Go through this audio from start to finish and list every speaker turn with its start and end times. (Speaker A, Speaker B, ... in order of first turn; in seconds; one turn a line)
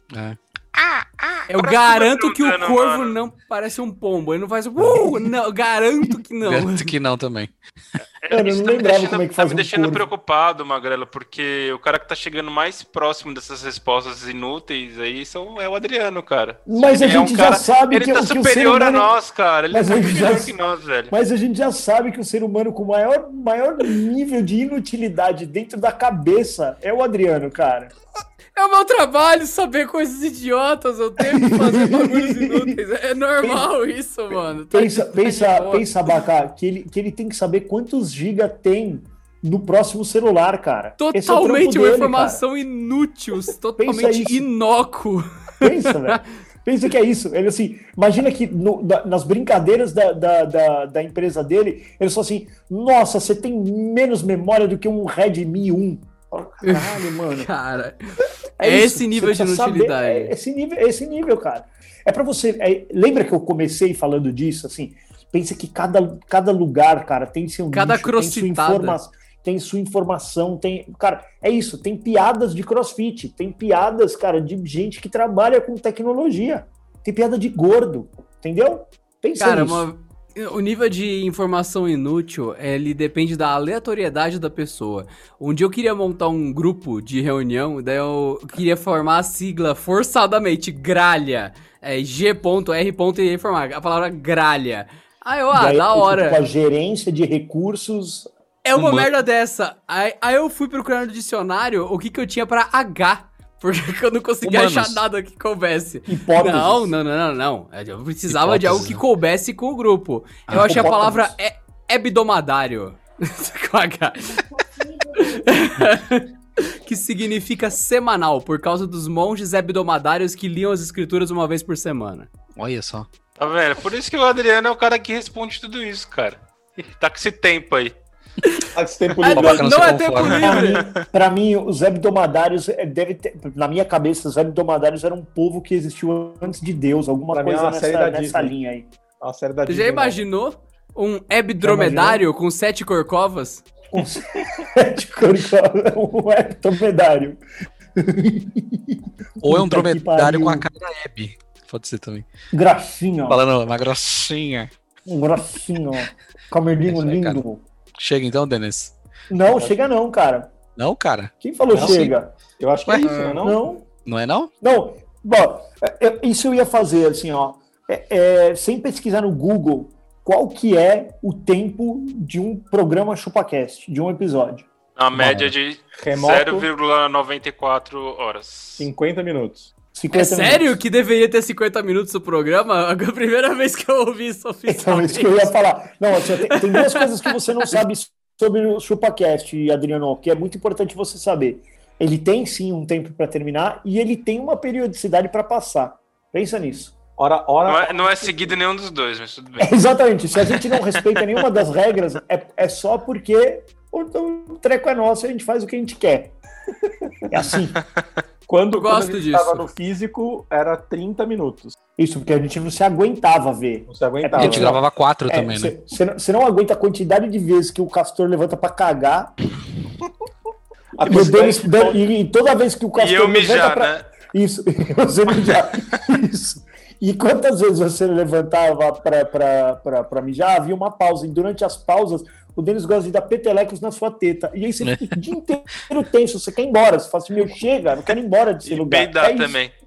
Speaker A: 0.1-1.4
Speaker B: 1.5-6.9
Speaker C: 1.5-3.1
Speaker D: 4.9-5.2
Speaker A: 6.4-7.5
Speaker C: 8.2-21.1
Speaker D: 8.3-10.1
Speaker D: 16.7-19.1
Speaker D: 19.7-20.6
Speaker D: 21.1-27.9
Speaker B: 28.5-35.9
Speaker D: 31.2-32.8
Speaker D: 33.4-33.7
Speaker D: 34.7-42.4
Speaker B: 41.0-46.2
Speaker D: 43.8-44.5
Speaker D: 45.6-57.5
Speaker B: 56.6-60.3
Speaker D: 58.6-79.8
Speaker B: 67.7-69.0
Speaker B: 79.4-96.4
Speaker D: 95.5-98.3
Speaker B: 98.6-114.5
Speaker A: 98.8-99.1
Speaker A: 104.4-105.0
Speaker D: 106.1-106.9
Speaker A: 108.3-109.0
Speaker A: 110.5-110.9
Speaker D: 110.5-111.3
Speaker B: 115.1-122.3
Speaker A: 122.6-123.1
Speaker C: 123.4-127.9
Speaker E: 128.7-129.9
Speaker B: 129.2-130.9
Speaker A: 129.2-130.6
Speaker D: 130.3-138.9
Speaker E: 137.3-138.5
Speaker E: 139.2-140.2
Speaker B: 139.7-143.7
Speaker D: 141.6-142.2
Speaker D: 143.9-147.4
Speaker D: 148.0-150.7
Speaker A: 149.4-152.2
Speaker D: 152.5-153.4
Speaker A: 153.3-154.7
Speaker D: 155.1-157.6
Speaker A: 156.9-157.4
Speaker A: 158.0-158.9
Speaker D: 159.3-160.5
Speaker E: 159.5-159.8
Speaker A: 160.8-162.1
Speaker D: 161.4-162.3
Speaker E: 161.7-163.6
Speaker A: 162.9-163.4
Speaker D: 163.0-163.8
Speaker A: 164.1-164.5
Speaker D: 164.6-174.7
Speaker C: 174.9-178.9
Speaker A: 175.1-175.5
Speaker E: 175.9-176.7
Speaker E: 178.8-179.7
Speaker D: 179.9-180.8
Speaker B: 180.1-185.5
Speaker D: 184.7-197.0
Speaker B: 186.5-187.3
Speaker E: 197.2-198.5
Speaker C: 197.7-199.8
Speaker D: 199.6-206.3
Speaker C: 200.4-201.2
Speaker D: 207.3-207.8
Speaker C: 207.8-208.0
Speaker E: 208.5-211.8
Speaker B: 208.7-209.7
Speaker D: 212.0-219.3
Speaker E: 213.9-214.8
Speaker A: 214.4-215.7
Speaker E: 220.9-222.1
Speaker D: 221.0-239.6
Speaker C: 222.9-224.1
Speaker A: 234.8-235.2
Speaker C: 238.6-239.7